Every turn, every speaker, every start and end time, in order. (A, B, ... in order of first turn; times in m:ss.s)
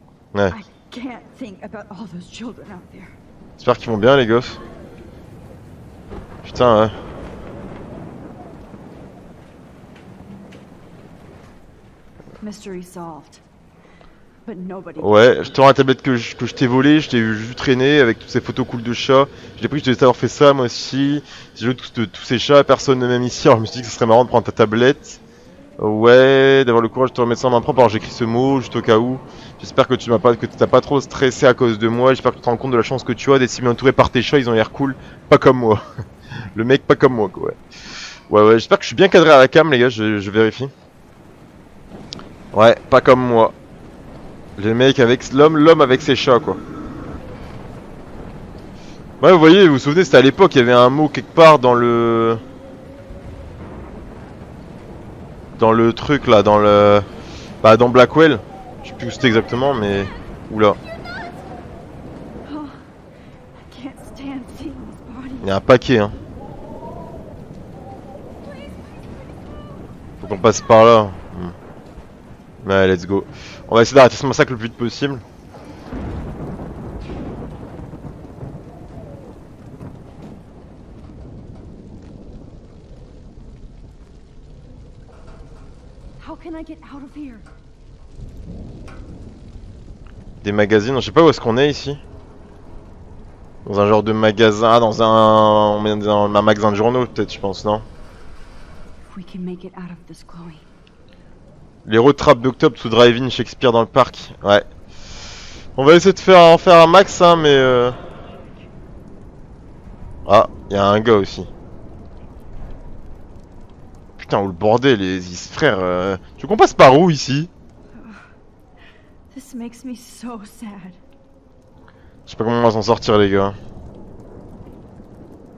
0:00.5-0:03.2 A
0:03.6-0:04.6 B
0:06.4-0:06.9 B
0:12.4-0:13.4 A
0:14.4-0:15.4 A
0:15.0-0:25.2 B
0:25.8-0:35.9 B
0:36.6-0:37.6 B
0:38.3-0:40.7 B
0:42.5-0:43.6 B
0:44.6-0:46.6 B
0:49.2-0:52.4 B
0:55.6-0:57.1 B
0:57.6-1:00.8 B
1:02.4-1:02.8 A
1:03.6-1:05.6 A
1:05.4-1:06.2 B
1:10.2-1:11.6 B
1:12.6-1:15.2 B
1:26.2-1:27.5 A
1:30.4-1:32.0 B
1:33.6-1:37.9 B
1:39.1-1:40.7 A
1:41.8-1:44.7 B
1:45.8-1:48.0 B
1:50.3-1:51.5 B
1:54.2-1:57.5 B
1:58.0-1:58.2 A
1:59.3-2:01.0 A
2:02.3-2:03.6 B